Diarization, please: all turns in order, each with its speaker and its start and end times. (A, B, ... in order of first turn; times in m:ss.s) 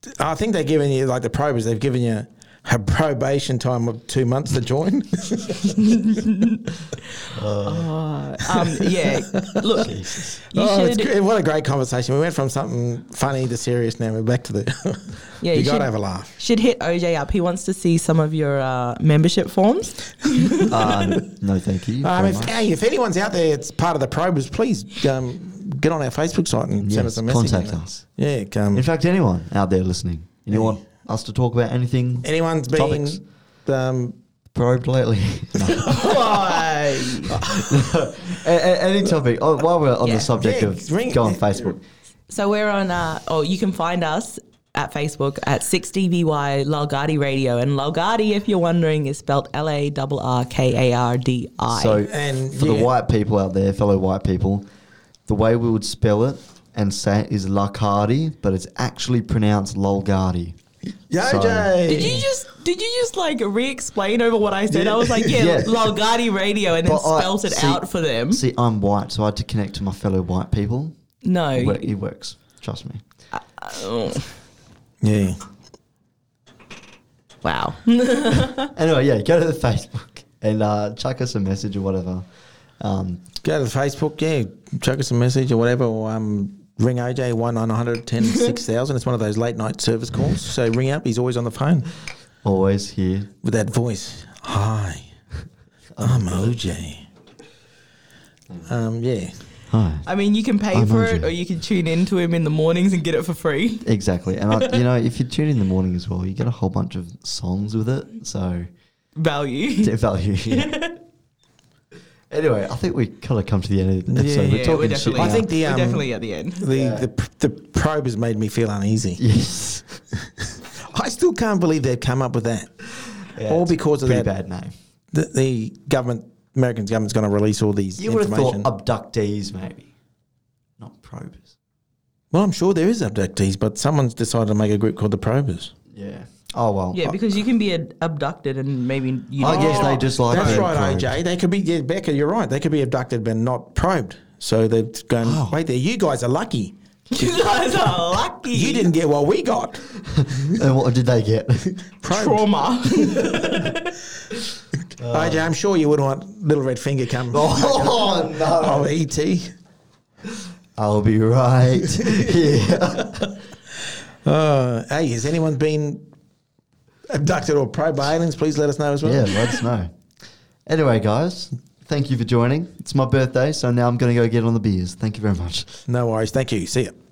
0:00.2-0:06.0 A
0:05.6-0:07.0 B
0:07.3-0:07.9 C
0:07.6-0:10.0 B
0:09.3-0:09.6 A
0:09.8-0:10.4 C
0:10.5-0:11.1 B
0:10.5-0:16.4 A
0:15.4-0:21.0 B
0:20.7-0:22.5 C
0:22.0-0:28.8 A
0:26.8-0:28.0 C
0:28.7-0:33.2 C
0:30.5-0:30.7 A
0:32.2-0:34.2 A
0:34.5-0:36.2 C
0:35.7-0:37.4 B
0:35.9-0:36.2 A
0:37.3-0:38.0 A
0:37.4-0:41.8 C
0:40.0-0:40.3 B
0:40.4-0:41.8 A
0:42.3-0:52.0 B
0:51.7-0:54.6 C
0:52.1-0:52.9 A
0:55.3-1:00.6 C
1:01.1-1:02.3 A
1:01.2-1:01.8 C
1:01.8-1:08.4 B
1:04.7-1:05.4 A
1:05.3-1:05.9 C
1:06.8-1:11.0 C
1:11.2-1:11.9 B
1:11.5-1:13.0 C
1:13.3-1:14.3 B
1:15.0-1:15.4 A
1:17.4-1:18.7 B
1:18.7-1:22.3 C
1:22.8-1:23.2 C
1:23.4-1:31.9 A
1:32.4-1:33.3 C
1:33.4-1:35.1 A
1:36.0-1:36.6 C
1:36.0-1:37.0 A
1:38.7-1:39.4 A
1:39.7-1:40.1 C
1:40.0-1:43.9 B
1:40.7-1:41.3 C
1:43.8-1:48.7 C
1:49.2-1:50.0 B
1:49.8-1:50.8 C
1:50.5-1:51.0 B
1:52.3-1:55.5 C
1:54.1-1:59.2 A
1:54.5-1:56.6 B
1:56.7-1:57.1 C
1:59.2-2:00.0 C
2:00.4-2:02.9 A
2:03.4-2:04.7 C
2:03.5-2:04.3 A
2:05.1-2:08.7 A
2:08.0-2:09.9 C
2:10.8-2:11.5 C
2:12.3-2:15.7 A
2:15.9-2:17.0 C
2:16.9-2:20.7 B
2:19.4-2:21.2 C
2:19.4-2:27.5 A
2:25.2-2:25.6 C
2:27.1-2:28.9 B
2:28.5-2:30.6 A
2:30.1-2:31.8 C
2:32.0-2:32.5 A
2:32.1-2:34.0 B
2:33.1-2:33.3 A
2:35.0-2:35.5 C
2:35.1-2:39.5 A
2:37.3-2:38.9 C
2:40.8-2:43.3 C
2:44.2-2:46.1 A
2:47.1-2:49.6 A
2:49.0-2:49.9 C
2:50.7-2:55.8 C
2:55.9-2:56.9 A